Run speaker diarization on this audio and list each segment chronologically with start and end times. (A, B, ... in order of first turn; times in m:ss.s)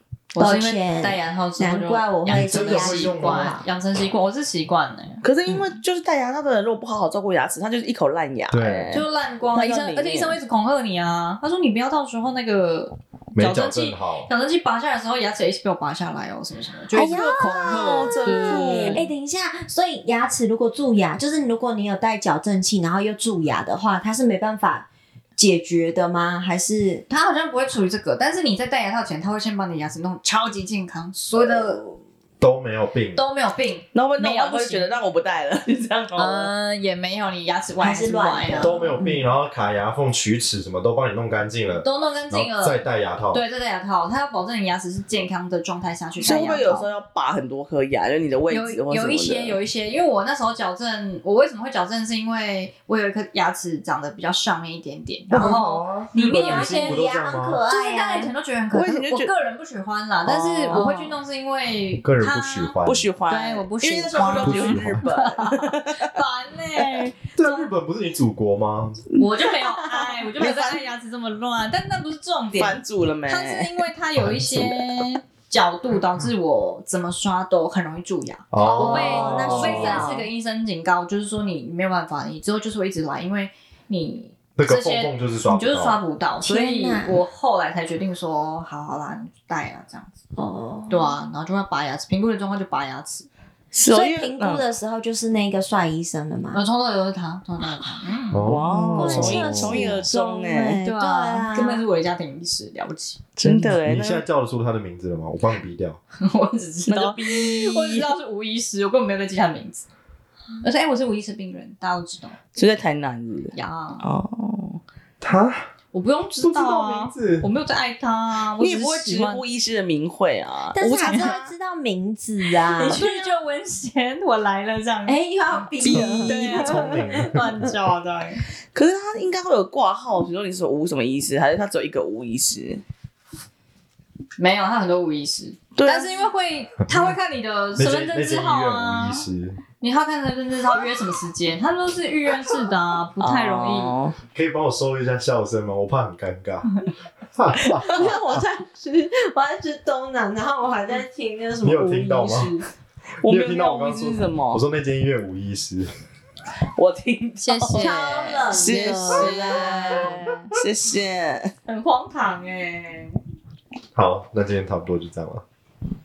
0:00.3-0:05.2 A
0:00.4-0:03.6 B
0:02.2-0:03.6 C
0:05.2-0:10.4 D
0:08.5-0:08.9 C
0:08.9-0:19.0 A
0:13.3-0:14.3 C
0:16.9-0:19.1 D
0:16.9-0:24.8 B
0:25.4-0:27.0 B
0:27.1-0:32.0 A
0:32.4-0:33.2 C
0:33.1-0:34.9 A
0:33.9-0:36.5 D
0:36.2-0:38.9 A
0:37.8-0:39.3 B
0:38.5-0:43.4 C
0:41.8-0:46.9 A
0:46.2-0:49.6 D
0:48.5-0:57.1 A
0:55.3-0:57.6 C
0:56.1-0:58.3 B
0:57.7-1:02.8 A
0:58.7-0:59.3 D
1:00.2-1:01.2 D
1:02.0-1:03.1 C
1:02.8-1:06.1 D
1:03.3-1:07.7 A
1:04.2-1:05.0 C
1:06.8-1:07.0 D
1:07.3-1:09.0 C
1:09.1-1:10.8 D
1:09.2-1:30.1 A
1:12.6-1:13.7 D
1:14.2-1:14.8 C
1:18.5-1:20.1 C
1:18.6-1:20.3 B
1:24.6-1:26.0 C
1:26.4-1:27.2 B
1:30.4-1:31.2 B
1:30.9-1:33.3 A
1:33.7-1:34.7 D
1:33.9-1:36.6 B
1:36.5-1:38.5 A
1:38.3-1:40.0 C
1:38.4-1:40.8 D
1:38.9-1:41.8 B
1:40.8-1:43.2 A
1:43.4-1:44.2 D
1:43.4-1:46.0 C
1:46.2-1:49.8 A
1:46.9-1:48.1 D
1:50.6-1:52.4 A
1:52.6-1:54.8 D
1:53.5-1:54.0 A
1:55.2-1:55.7 C
1:55.9-1:59.4 A
1:56.4-1:57.5 C
1:58.6-2:01.5 D
2:00.7-2:03.0 B
2:01.0-2:01.3 A
2:02.7-2:05.2 A
2:02.8-2:03.3 D
2:05.0-2:07.2 B
2:05.8-2:08.4 A
2:05.8-2:06.4 D
2:06.5-2:07.6 C
2:08.7-2:12.8 D
2:14.4-2:19.2 A
2:15.7-2:16.3 D
2:17.8-2:19.6 C
2:19.8-2:23.9 A
2:23.2-2:24.2 D
2:24.3-2:26.8 C
2:27.3-2:28.4 C
2:27.9-2:32.6 B
2:31.6-2:32.5 C
2:33.2-2:34.6 D
2:33.2-2:35.9 C
2:36.7-2:41.5 D
2:37.4-2:40.5 A
2:37.7-2:40.1 B
2:41.6-2:43.2 A
2:43.9-2:45.4 C